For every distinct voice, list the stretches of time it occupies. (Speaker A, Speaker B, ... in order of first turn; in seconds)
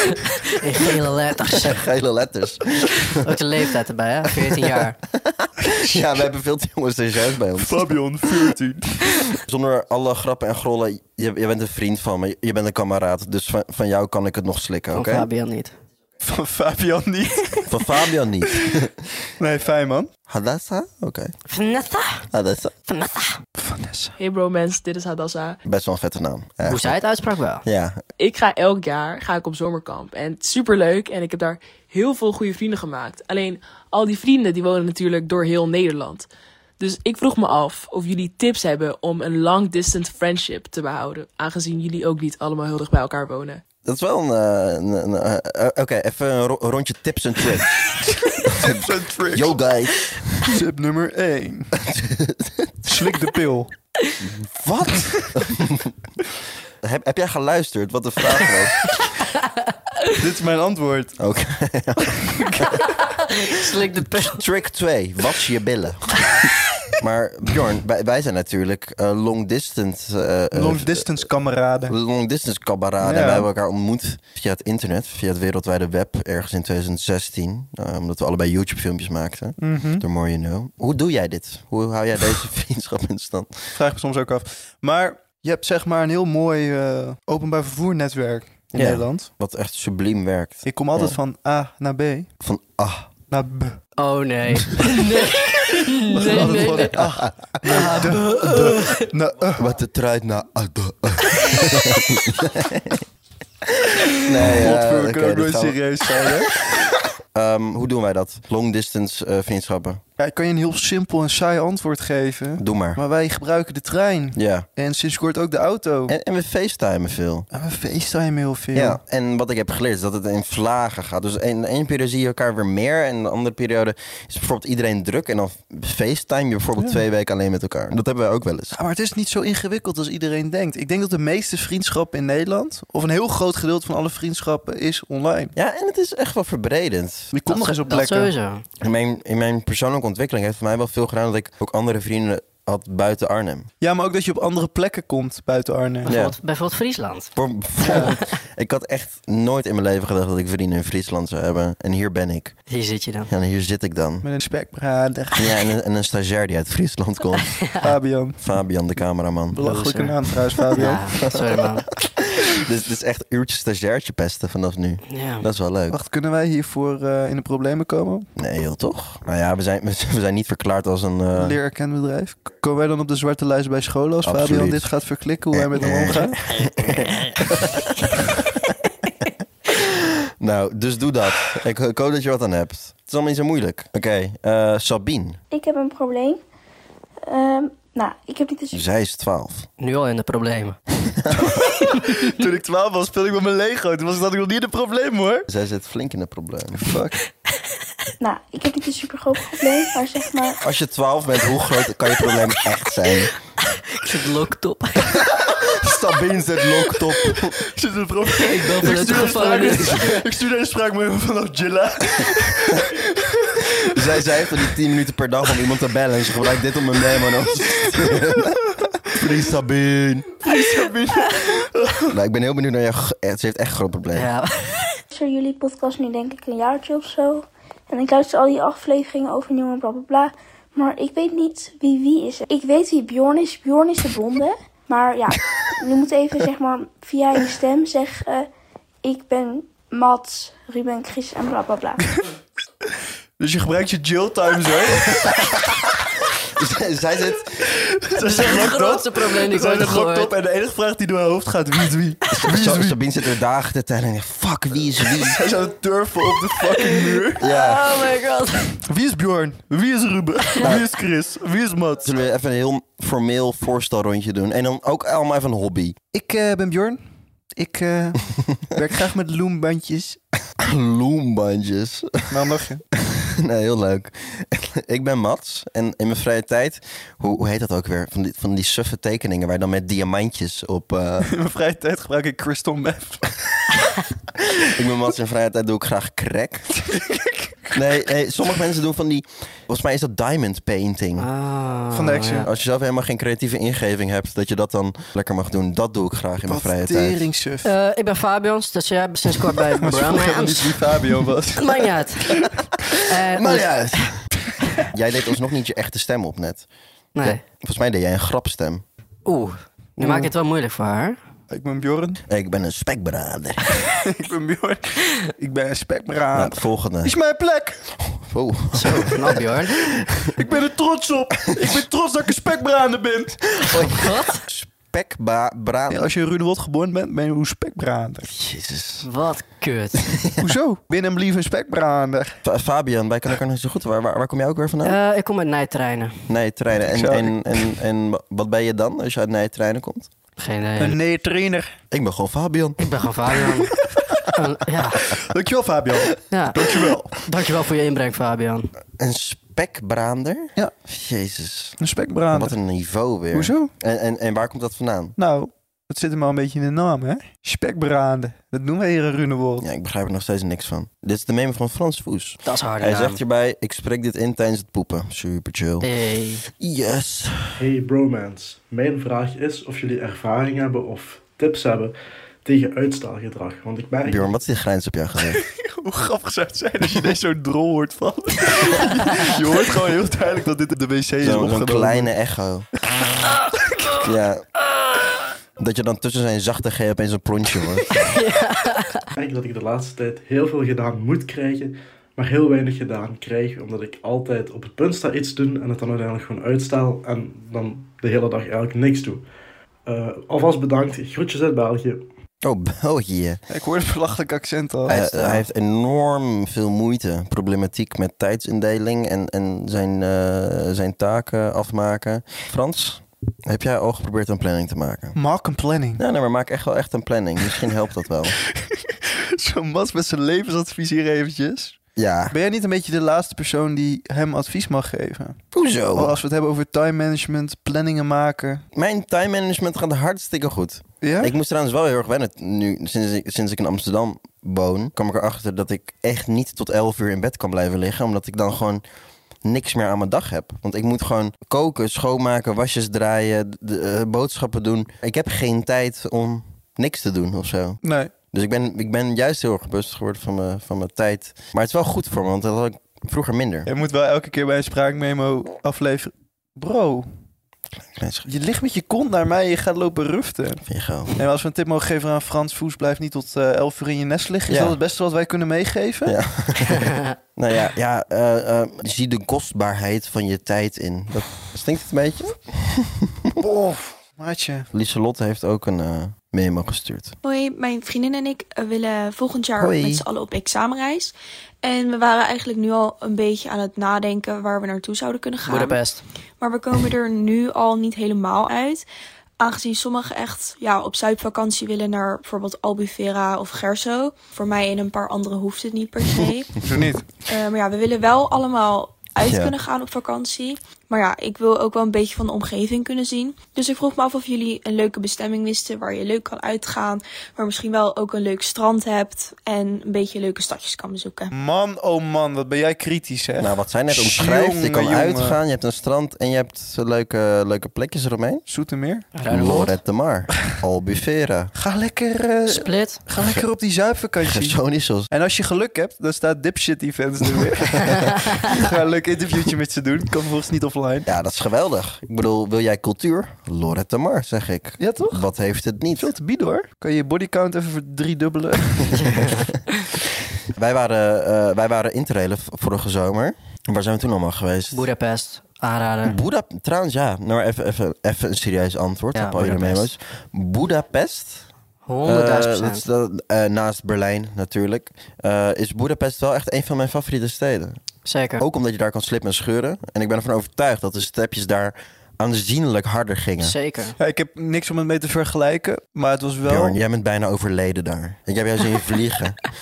Speaker A: 0.5-1.8, 3.1-5.0, 14.9-15.7, 21.5-22.2, 22.9-23.4, 26.6-27.6, 63.0-64.4, 94.0-97.0, 97.7-99.0, 137.5-138.6, 146.0-147.3, 147.9-148.2, 152.7-153.3, 159.6-160.2, 160.7-161.9, 165.1-165.4, 189.8-190.8, 203.7-205.2, 208.4-210.2, 224.1-225.0, 248.2-250.3, 256.6-258.8, 291.2-292.5, 297.6-300.8, 301.6-302.5, 303.0-303.7, 307.1-307.4, 309.2-311.2, 318.7-319.9, 323.9-324.4, 329.0-330.1, 334.8-336.2, 340.4-341.0, 342.8-343.7, 344.3-345.0, 346.3-348.7, 362.4-363.2, 365.8-366.4, 387.9-389.1, 485.5-486.0, 519.1-519.8, 522.5-523.0, 544.7-546.2, 549.1-549.9, 551.9-552.8, 558.0-558.4, 563.4-563.9
Speaker B: 1.5-3.1, 5.2-7.9, 9.4-15.3, 17.7-18.9, 20.3-21.3, 22.3-22.7, 25.6-27.0, 27.6-28.0, 43.8-47.9, 48.5-50.6, 51.8-52.9, 54.2-55.9, 56.8-59.0, 61.2-62.8, 64.2-66.3, 67.0-71.2, 71.9-83.7, 88.7-91.2, 92.4-93.1, 99.5-103.0, 104.2-106.5, 107.3-110.0, 112.6-113.0, 114.3-114.7, 116.1-117.5, 118.7-128.8, 135.5-137.3, 138.8-143.7, 146.1-146.3, 147.3-152.5, 153.3-154.2, 155.4-157.7, 158.4-159.6, 160.7-166.0, 168.3-171.6, 174.2-174.9, 175.5-178.4, 179.8-185.4, 188.7-189.7, 191.2-191.6, 195.5-196.9, 200.6-203.3, 205.2-207.6, 213.9-220.4, 222.1-224.3, 246.6-247.7, 252.3-255.4, 257.4-258.0, 262.0-266.0, 270.6-281.3, 284.6-286.8, 287.7-291.3, 292.4-297.2, 303.3-304.2, 304.9-306.6, 307.2-308.8, 312.3-313.7, 316.3-317.1, 318.1-319.4, 323.6-326.1, 328.2-329.1, 332.4-335.0, 336.3-340.1, 341.9-342.8, 349.0-351.8, 352.3-355.1, 359.6-365.9, 366.5-367.6, 374.0-375.4, 381.2-382.7, 384.0-384.4, 385.6-388.0, 402.4-403.4, 404.9-415.2, 416.0-418.4, 421.9-422.4, 425.5-426.1, 428.7-438.8, 439.4-447.8, 448.3-453.7, 457.8-458.3, 460.6-461.1, 464.5-464.8, 466.1-473.4, 474.7-477.1, 479.6-480.0, 499.2-499.6, 513.4-518.4, 519.3-521.5, 523.2-523.4, 524.2-525.1, 531.0-536.1, 539.0-539.4, 540.5-544.9, 546.0-551.5, 552.0-557.8, 558.4-563.5, 566.4-569.4
Speaker C: 7.6-9.2, 16.2-17.8, 19.4-20.1, 23.6-24.1, 48.0-49.5, 50.4-51.7, 52.8-53.7, 60.2-61.2, 70.5-72.0, 73.0-73.5, 79.6-80.0, 83.7-89.3, 90.7-92.3, 93.3-93.8, 96.1-99.6, 104.4-106.4, 110.2-116.2, 117.5-119.0, 128.7-135.5, 137.3-138.3, 143.8-146.1, 154.2-155.5, 157.8-158.4, 159.5-161.0, 165.9-168.3, 171.3-176.4, 191.4-195.5, 196.8-197.2, 207.3-213.8, 220.4-222.1, 243.4-245.5, 247.7-253.0, 255.2-257.4, 258.9-262.1, 266.1-267.0, 267.5-270.2, 272.3-272.8, 281.2-283.3, 286.9-287.3, 291.9-292.5, 296.5-297.7, 299.8-301.9, 310.0-310.3, 311.5-312.2, 313.9-317.9, 320.2-323.4, 325.9-328.3, 330.4-332.4, 336.9-337.7, 340.8-341.7, 345.1-347.1, 351.8-352.5, 353.3-353.7, 355.2-359.6, 375.4-382.1, 403.5-405.4, 415.1-416.0, 418.5-421.8, 422.3-425.4, 425.9-428.6, 431.0-431.3, 447.8-448.1, 453.7-457.1, 458.2-466.1, 473.4-474.7, 496.6-497.1, 511.3-515.4, 518.5-519.0, 521.5-524.6, 525.1-531.1, 534.8-535.3, 536.0-539.2, 564.0-566.8
Speaker D: 24.2-25.6, 28.2-36.3, 36.8-43.6
Speaker E: 185.5-186.4, 187.3-188.8, 198.2-200.6, 225.1-238.5, 239.0-242.0
Speaker F: 367.6-371.9, 372.4-374.3, 389.1-399.3, 399.9-402.1
Speaker G: 477.2-485.8, 486.4-488.8, 489.4-496.6, 497.3-511.3